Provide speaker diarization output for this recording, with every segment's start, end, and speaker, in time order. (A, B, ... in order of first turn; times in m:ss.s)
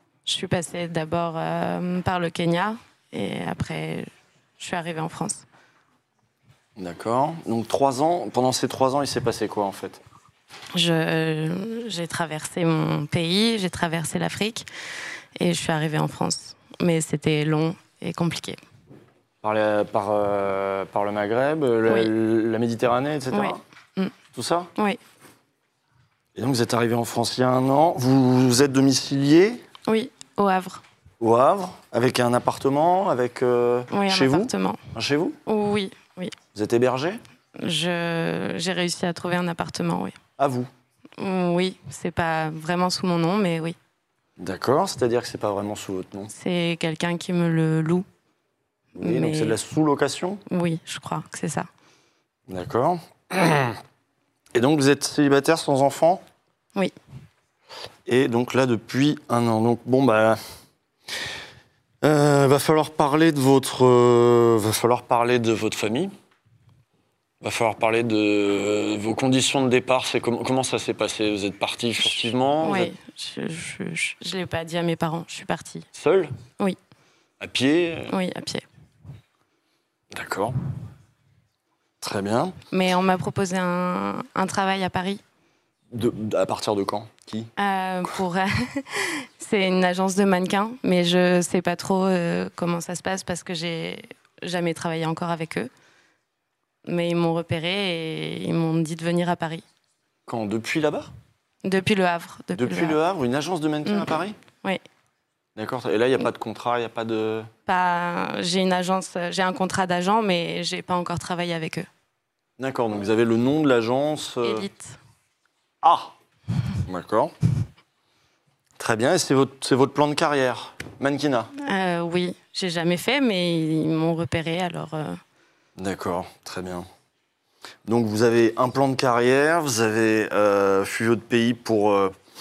0:00.3-0:05.4 A
0:06.8-0:10.0 B
0:10.7-0:14.7 A
0:15.4-0:18.6 A
0:19.4-0:23.6 B
0:23.3-0:24.2 A
0:24.3-0:24.7 B
0:26.4-0:29.6 B
0:29.9-0:30.8 A
0:31.2-0:35.4 B
0:33.9-0:34.8 A
0:35.5-0:36.4 A
0:36.5-0:37.2 B
0:37.6-0:40.2 A
0:40.4-0:40.7 B
0:41.2-0:43.8 A
0:44.4-0:46.3 B
0:46.3-0:48.1 A
0:49.0-0:49.6 A
0:49.0-0:50.4 B
0:50.5-0:51.7 A
0:52.5-0:53.8 B
0:54.5-0:56.2 B
0:58.1-1:00.4 B
1:02.0-1:06.1 B
1:07.4-1:12.9 B
1:12.6-1:15.9 A
1:15.9-1:16.3 B
1:17.4-1:18.1 B
1:18.1-1:18.6 A
1:20.1-1:20.6 B
1:22.0-1:22.6 B
1:22.7-1:25.2 A
1:25.9-1:27.5 B
1:27.6-1:35.7 A
1:36.9-1:39.6 A
1:40.3-1:41.1 B
1:41.6-1:43.0 A
1:42.6-1:44.4 B
1:45.6-1:47.5 B
1:47.7-1:51.9 A
1:52.6-1:54.7 B
1:54.4-1:55.0 A
1:55.8-1:56.1 B
1:56.9-1:57.3 B
1:58.8-2:01.5 B
2:01.6-2:05.2 A
2:05.8-2:06.9 B
2:07.8-2:12.1 B